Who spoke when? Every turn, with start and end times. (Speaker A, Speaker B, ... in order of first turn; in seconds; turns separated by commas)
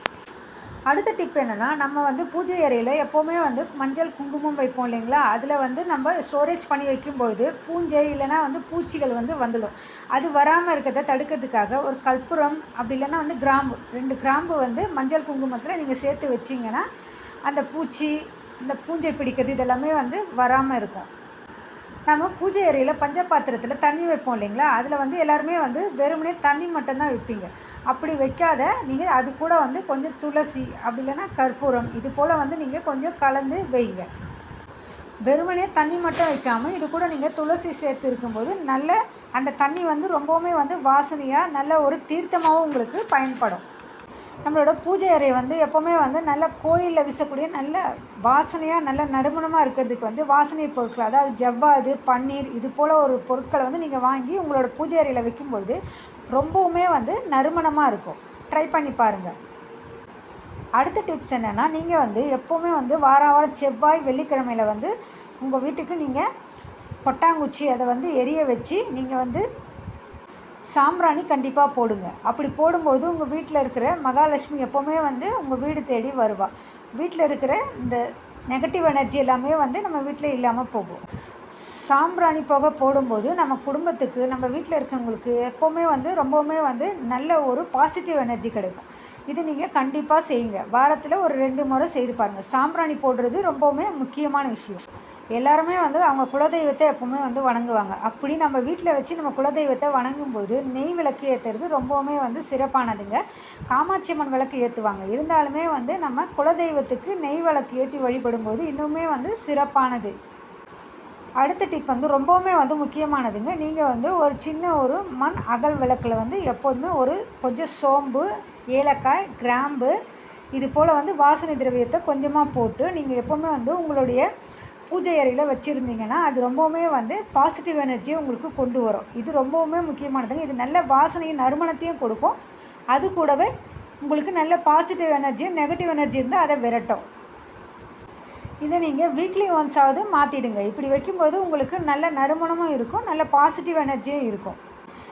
Speaker A: 0.9-16.9, Speaker A: 17.5-21.1, Speaker A: 22.1-34.1, Speaker A: 35.3-43.6, Speaker A: 44.5-55.8, Speaker A: 56.3-59.3, Speaker A: 60.8-66.2, Speaker A: 67.0-69.4, Speaker A: 70.7-94.8, Speaker A: 95.3-110.1, Speaker A: 111.4-119.9, Speaker A: 120.5-124.2, Speaker A: 124.9-132.4, Speaker A: 132.9-133.5, Speaker A: 134.0-137.0, Speaker A: 138.6-144.6